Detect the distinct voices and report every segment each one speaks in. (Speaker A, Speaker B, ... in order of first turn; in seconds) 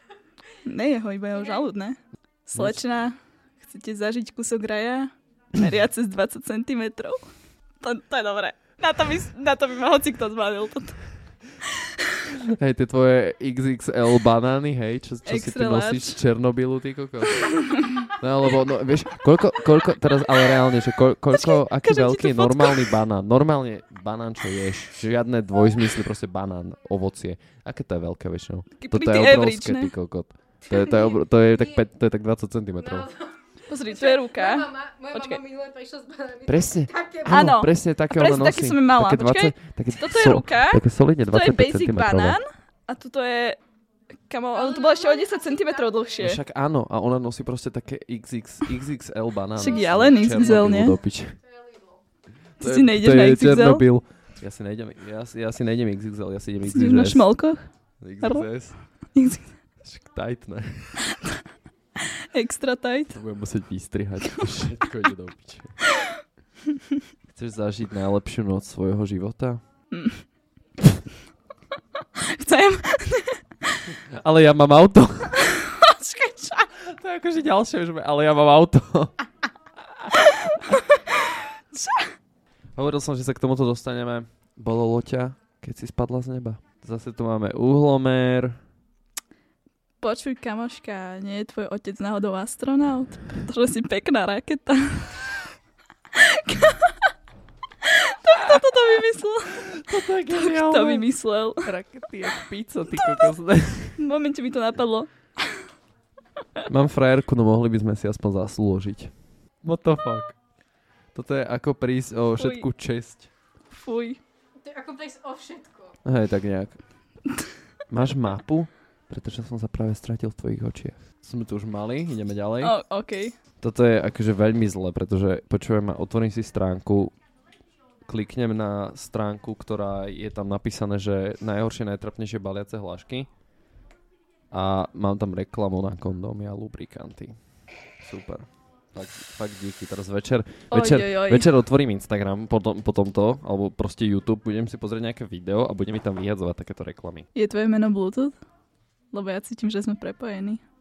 Speaker A: 0.7-11.0, 15.3-16.2, 17.5-18.0, 21.3-22.9, 28.8-29.9, 33.7-35.4, 37.3-43.6, 44.3-46.4, 49.6-51.0, 52.6-53.9, 56.7-57.7, 58.2-58.5, 59.1-59.5, 62.3-63.2, 69.9-70.2, 72.2-73.8, 75.6-76.7, 81.7-82.1, 90.0-95.4, 96.1-97.0, 97.8-101.7, 104.0-105.6, 112.4-112.7, 113.7-114.2, 122.6-123.3, 140.7-141.5, 147.3-148.4, 149.1-150.6
Speaker B: 2.5-2.8, 12.6-33.1, 36.5-42.4, 46.2-51.4, 52.6-57.3, 58.0-58.8, 59.8-61.0, 63.1-65.8, 67.3-69.6, 74.1-75.5, 76.7-79.1, 80.0-80.8, 82.8-88.6, 99.7-104.0, 106.7-110.4, 111.1-113.3, 116.0-116.8, 117.9-122.8, 123.6-127.1, 128.1-133.3, 134.5-137.4, 138.0-147.3
Speaker C: 30.6-31.9, 32.8-37.5, 44.5-46.3, 49.6-52.0, 114.6-116.0